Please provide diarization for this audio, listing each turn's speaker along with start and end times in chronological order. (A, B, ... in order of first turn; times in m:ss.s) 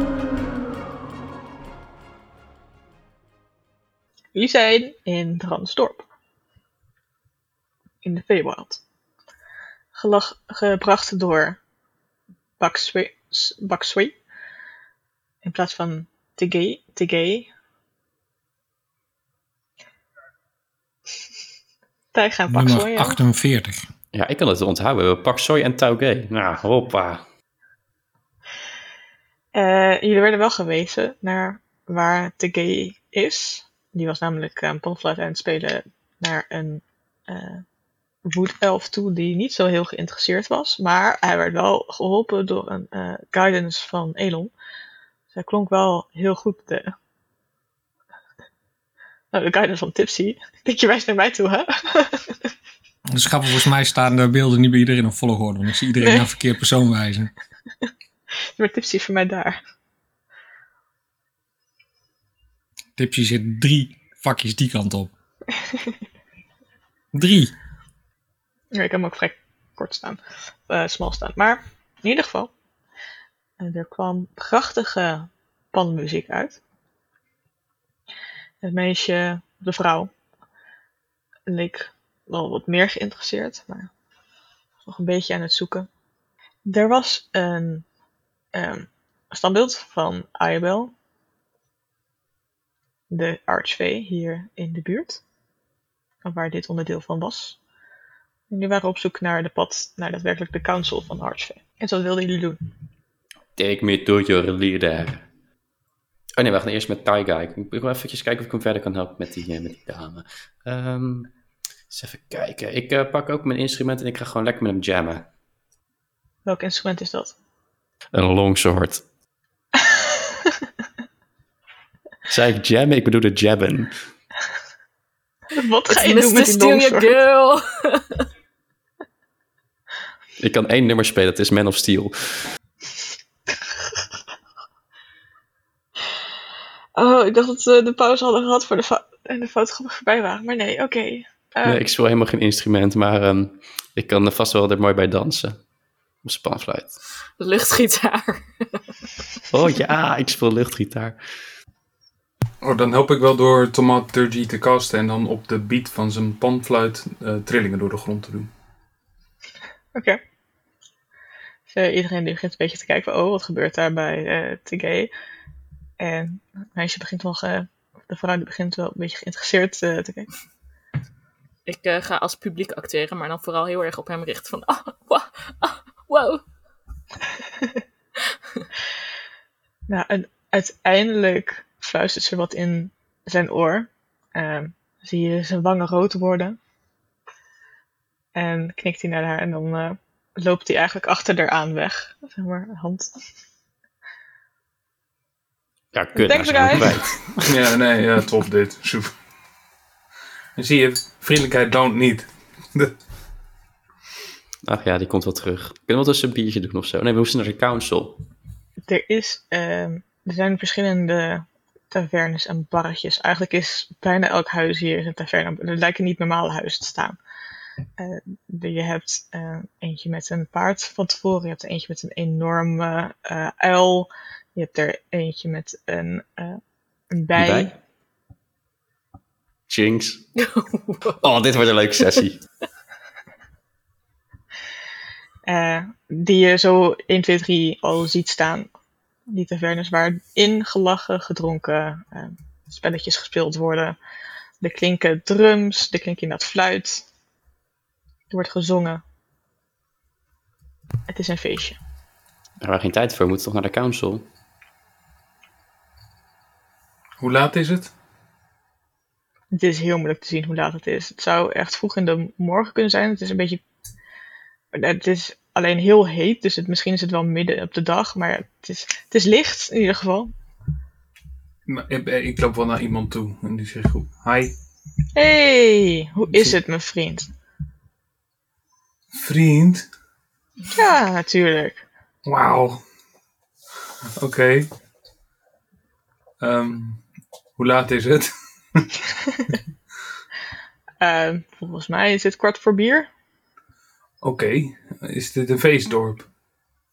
0:04.4-0:06.0 A
0:08.0-0:08.8 A
0:10.0-0:11.6 A
0:12.6-0:14.2 A
0:15.4-0:17.5 A
0:22.1-0:23.2 A
0:22.5-0:23.9 B
0:24.1-0:27.2 C
0:29.6-0:37.6 A
0:38.2-0:44.5 A
0:45.3-0:46.9 A
0:49.3-0:52.4 A
0:53.1-0:57.3 B
0:58.6-0:59.6 A
1:03.0-1:05.1 B
1:05.6-1:05.9 A
1:07.1-1:07.6 B
1:08.7-1:12.5 A
1:13.6-1:16.6 A
1:18.6-1:20.1 A
1:21.5-1:23.9 A
1:24.8-1:25.9 A
1:26.7-1:27.9 A
1:28.5-1:30.9 A
1:33.1-1:35.2 A
1:36.2-1:37.6 A
1:38.5-1:42.6 A
1:43.6-1:45.2 C
1:46.4-1:51.3 C
1:51.9-1:55.3 C
1:56.5-1:57.4 A
1:58.1-1:59.0 C
1:59.9-2:00.5 A
2:02.3-2:03.9 C
2:05.5-2:07.1 A
2:05.9-2:08.3 D
2:10.4-2:12.4 C
2:17.0-2:21.8 A
2:21.6-2:25.6 C
2:26.2-2:26.9 C
2:27.4-2:28.8 D
2:29.5-2:31.2 C
2:32.6-2:38.5 E
2:40.0-2:40.2 A
2:41.7-2:45.1 A
2:46.0-2:50.3 A
2:51.7-2:56.4 D
2:59.9-3:06.6 A
3:08.4-3:13.1 A
3:15.9-3:17.6 C
3:16.2-3:17.0 A
3:17.4-3:19.2 E
3:20.6-3:22.9 E
3:24.6-3:28.2 C
3:28.9-3:37.2 A
3:38.0-3:46.6 A
3:47.1-3:47.8 A
3:47.4-3:47.7 C
3:49.7-3:50.3 C
3:50.4-3:51.3 D
3:51.2-3:52.4 C
3:55.5-3:58.7 A
3:59.3-4:04.0 A
4:04.6-4:07.1 A
4:08.3-4:09.0 A
4:11.1-4:11.8 A
4:12.6-4:14.3 C
4:17.2-4:17.9 E
4:19.5-4:23.6 A
4:24.7-4:30.3 A
4:31.7-4:34.6 E
4:35.2-4:37.3 A
4:39.1-4:39.9 E
4:40.7-4:41.8 A
4:42.2-4:42.8 E
4:44.2-4:44.7 E
4:46.4-4:47.0 E
4:47.6-4:49.6 E
4:51.0-4:53.1 A
4:54.2-4:56.3 E